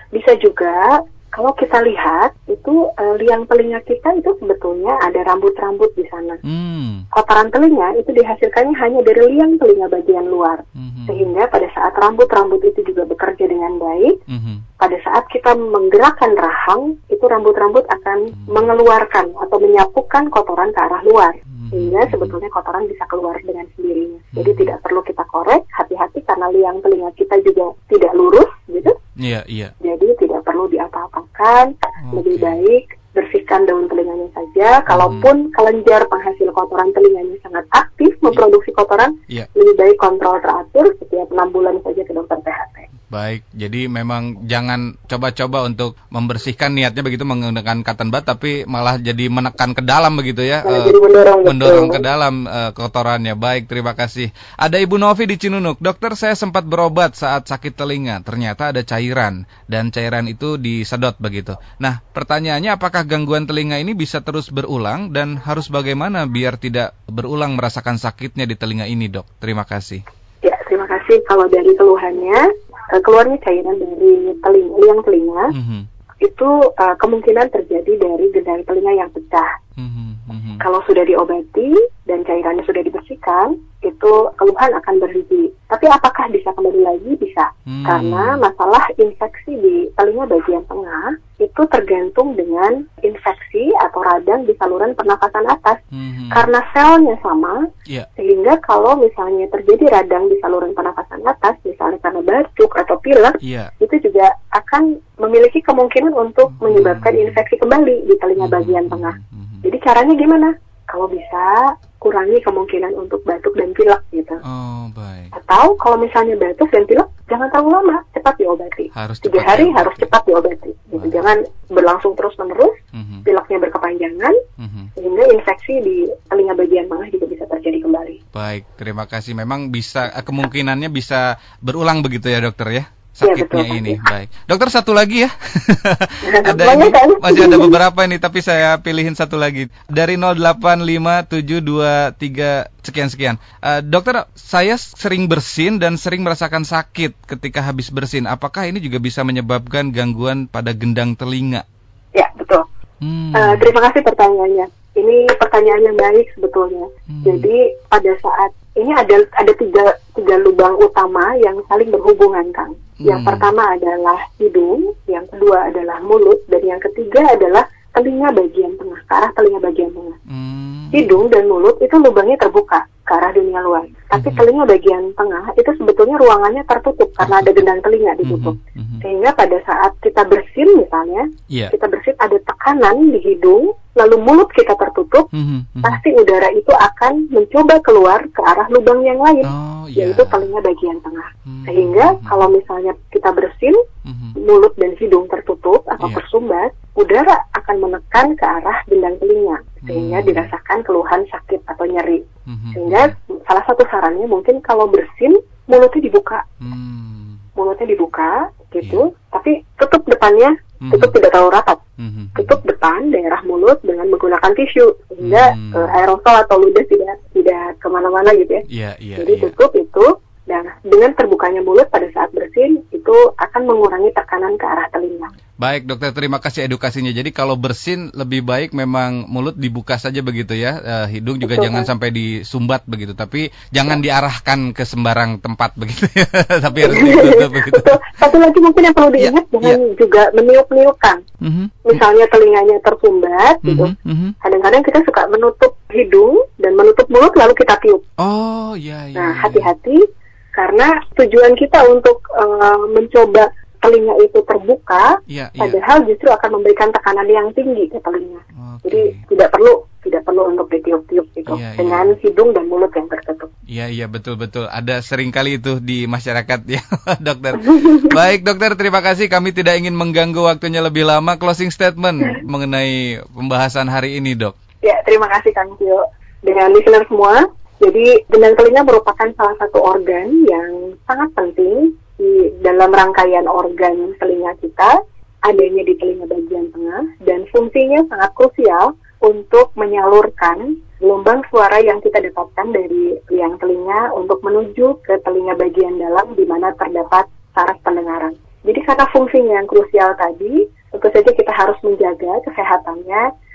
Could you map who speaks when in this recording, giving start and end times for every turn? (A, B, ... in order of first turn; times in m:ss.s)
0:00.1-0:06.4 A
0:06.4-0:07.0 B
0:07.1-0:14.2 A
0:10.8-0:11.3 B
0:14.3-0:14.6 B
0:14.8-0:28.9 A
0:18.3-0:18.7 B
0:21.5-0:22.4 B
0:24.4-0:24.8 B
0:29.2-0:29.7 B
0:29.8-0:42.8 A
0:32.0-0:32.6 B
0:34.9-0:35.3 B
0:43.1-1:10.0 B
0:50.6-0:52.0 A
1:10.4-1:15.5 A
1:15.5-1:15.9 B
1:16.2-1:19.5 A
1:19.8-1:20.6 B
1:20.6-1:37.6 A
1:27.7-1:28.4 B
1:35.9-1:36.5 B
1:38.2-1:54.4 A
1:43.4-1:43.7 B
1:46.5-1:47.4 B
1:48.4-1:49.6 B
1:54.4-1:55.3 B
1:55.3-2:04.4 A
1:58.9-2:00.1 B
2:01.0-2:01.3 B
2:02.9-2:03.2 B
2:04.6-2:04.9 B
2:05.0-2:08.2 A
2:08.3-2:31.6 B
2:13.2-2:14.0 A
2:16.2-2:17.8 A
2:32.2-2:32.6 A
2:33.0-2:33.7 B
2:33.3-2:50.2 A
2:37.1-2:37.5 B
2:43.0-2:43.5 B
2:50.3-2:51.2 B
2:50.9-3:05.3 A
2:54.1-2:54.5 B
2:57.2-2:57.6 B
2:58.2-2:59.0 B
3:05.3-3:06.0 B
3:05.8-3:13.8 A
3:09.4-3:10.5 B
3:11.5-3:12.5 B
3:14.1-3:14.4 B
3:14.4-3:22.2 A
3:19.8-3:20.5 B
3:22.5-3:23.2 B
3:22.8-3:26.4 A
3:26.6-3:27.4 B
3:27.6-3:31.8 A
3:28.8-3:29.1 B
3:30.8-3:31.2 B
3:32.0-3:32.6 B
3:32.4-3:38.6 A
3:35.2-3:35.9 B
3:38.7-3:39.6 B
3:39.2-3:45.3 A
3:45.6-3:58.3 B
3:51.4-3:51.9 A
3:56.8-4:01.2 A
3:59.2-3:59.8 B
4:01.4-4:02.0 B
4:01.9-4:08.0 A
4:03.6-4:04.4 B
4:08.2-4:09.7 B
4:09.2-4:10.0 A
4:10.6-4:23.5 A
4:15.3-4:15.8 B
4:18.6-4:19.2 B
4:21.5-4:22.2 B
4:23.7-4:34.6 B
4:27.7-4:28.1 A
4:34.8-4:44.9 A
4:45.4-5:03.2 A